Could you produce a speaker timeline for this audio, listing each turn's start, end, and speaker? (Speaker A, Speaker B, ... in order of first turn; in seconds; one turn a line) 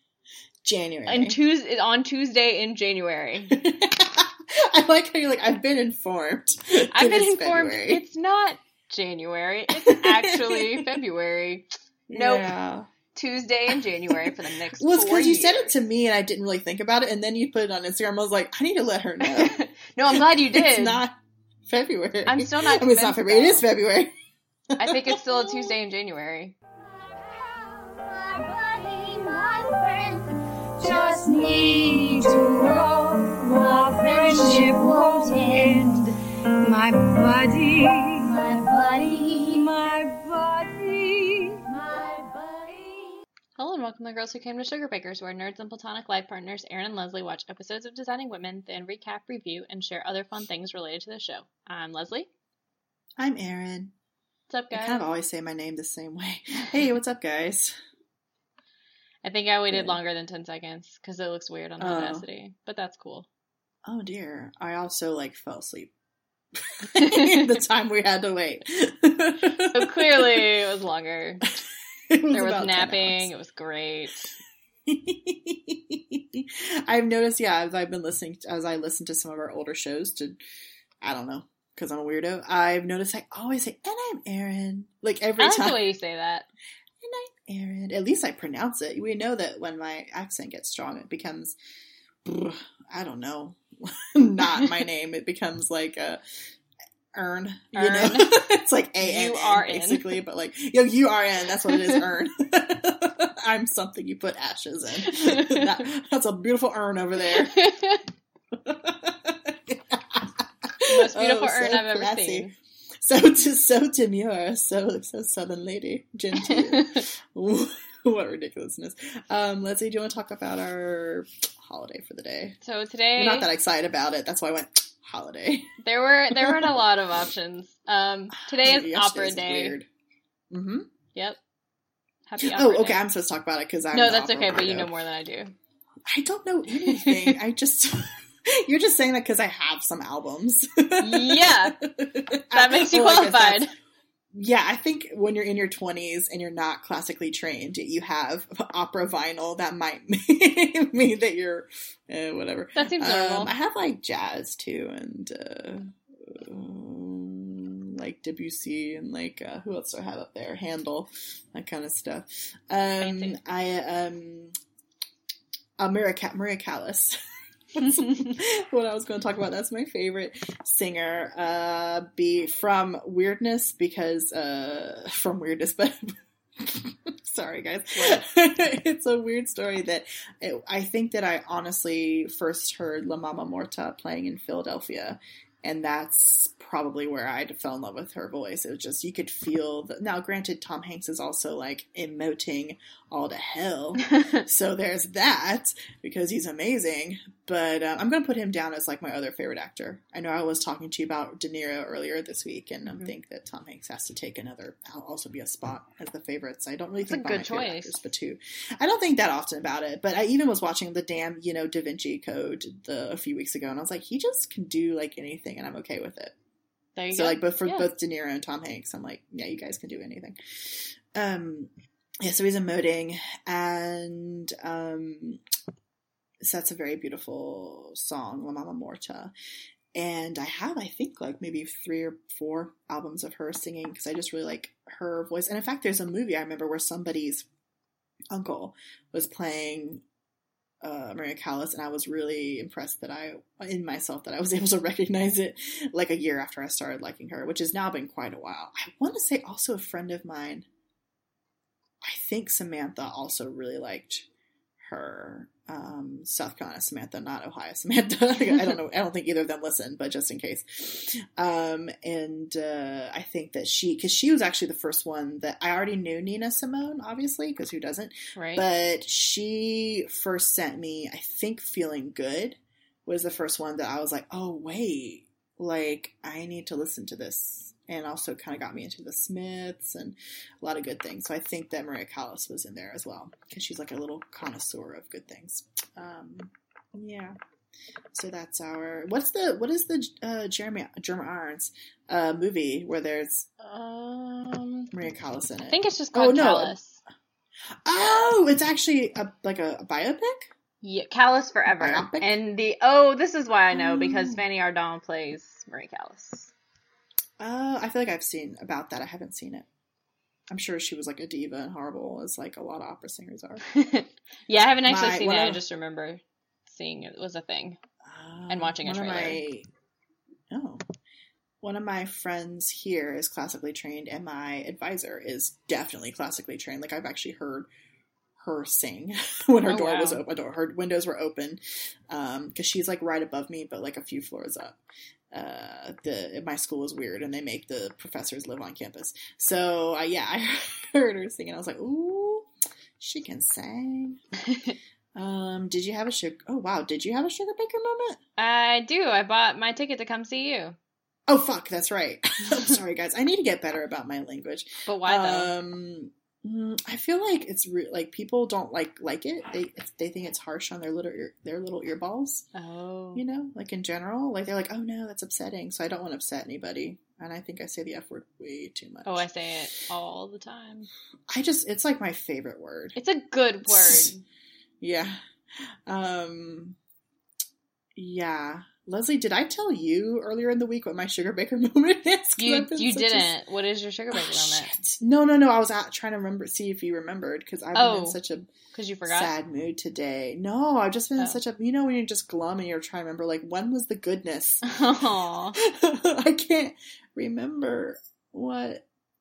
Speaker A: 0.6-1.4
Speaker B: 1.1-3.5
Speaker A: 3.5-8.0
Speaker B: 6.9-12.5
Speaker A: 9.8-10.9
Speaker A: 12.1-12.9
Speaker B: 13.1-15.7
Speaker A: 13.7-21.1
Speaker B: 19.2-21.0
Speaker A: 21.7-24.1
Speaker B: 22.2-23.6
Speaker A: 24.7-25.5
Speaker B: 24.8-26.5
Speaker C: 26.8-43.1
Speaker B: 43.6-52.3
Speaker A: 53.2-53.9
Speaker B: 54.5-55.0
Speaker A: 54.7-57.7
Speaker B: 59.2-63.3
Speaker A: 59.7-60.0
Speaker A: 61.8-62.2
Speaker A: 63.8-65.9
Speaker A: 66.7-70.4
Speaker B: 67.0-67.5
Speaker B: 69.7-71.4
Speaker A: 72.1-73.3
Speaker B: 72.3-74.3
Speaker A: 74.9-80.4
Speaker A: 81.0-85.8
Speaker B: 85.4-86.5
Speaker A: 87.0-91.5
Speaker A: 92.2-96.2
Speaker A: 97.1-107.6
Speaker B: 97.7-98.4
Speaker B: 99.0-100.2
Speaker B: 101.7-102.0
Speaker B: 105.0-105.8
Speaker B: 107.2-108.0
Speaker A: 108.6-122.6
Speaker B: 110.9-112.5
Speaker B: 116.3-117.0
Speaker B: 122.6-123.5
Speaker A: 123.2-125.7
Speaker B: 125.8-129.8
Speaker A: 126.3-126.8
Speaker A: 128.3-129.9
Speaker A: 130.5-130.9
Speaker B: 132.3-133.0
Speaker A: 132.4-134.9
Speaker B: 133.9-135.5
Speaker A: 136.1-143.7
Speaker B: 136.8-137.3
Speaker B: 141.0-141.7
Speaker B: 142.5-143.7
Speaker A: 144.3-164.5
Speaker B: 152.8-153.5
Speaker B: 163.0-163.4
Speaker A: 165.8-167.2
Speaker A: 167.7-216.3
Speaker B: 177.9-178.2
Speaker B: 194.1-194.4
Speaker B: 202.8-203.1
Speaker B: 207.1-208.0
Speaker B: 216.9-217.9
Speaker A: 217.1-221.7
Speaker A: 222.2-225.4
Speaker A: 226.4-229.3
Speaker A: 229.9-237.4
Speaker A: 238.3-240.0
Speaker A: 240.8-250.7
Speaker A: 252.0-254.3
Speaker A: 254.8-287.4
Speaker B: 268.4-268.6
Speaker A: 288.1-293.5
Speaker B: 293.6-294.9
Speaker A: 294.9-296.8
Speaker B: 295.7-297.0
Speaker A: 297.8-300.5
Speaker B: 300.8-306.5
Speaker A: 301.7-302.3
Speaker A: 303.7-304.4
Speaker A: 307.4-309.6
Speaker A: 310.5-313.6
Speaker B: 313.7-317.8
Speaker A: 314.9-315.6
Speaker A: 318.0-319.7
Speaker B: 318.5-319.4
Speaker A: 320.5-320.8
Speaker A: 321.6-327.7
Speaker A: 328.4-331.6
Speaker B: 329.6-330.2
Speaker A: 332.1-334.8
Speaker A: 335.3-342.5
Speaker A: 343.0-344.2
Speaker B: 344.5-344.8
Speaker A: 345.1-348.2
Speaker B: 348.4-350.8
Speaker A: 351.3-362.4
Speaker B: 354.9-355.5
Speaker B: 362.5-363.2
Speaker A: 363.1-369.2
Speaker B: 369.0-370.9
Speaker A: 371.3-372.9
Speaker B: 372.9-374.2
Speaker A: 373.7-374.1
Speaker A: 374.8-375.2
Speaker A: 375.9-376.8
Speaker A: 377.9-383.3
Speaker B: 382.4-384.7
Speaker A: 384.1-388.5
Speaker B: 387.7-388.2
Speaker B: 388.7-389.3
Speaker A: 389.1-394.7
Speaker B: 394.6-395.6
Speaker A: 395.6-398.8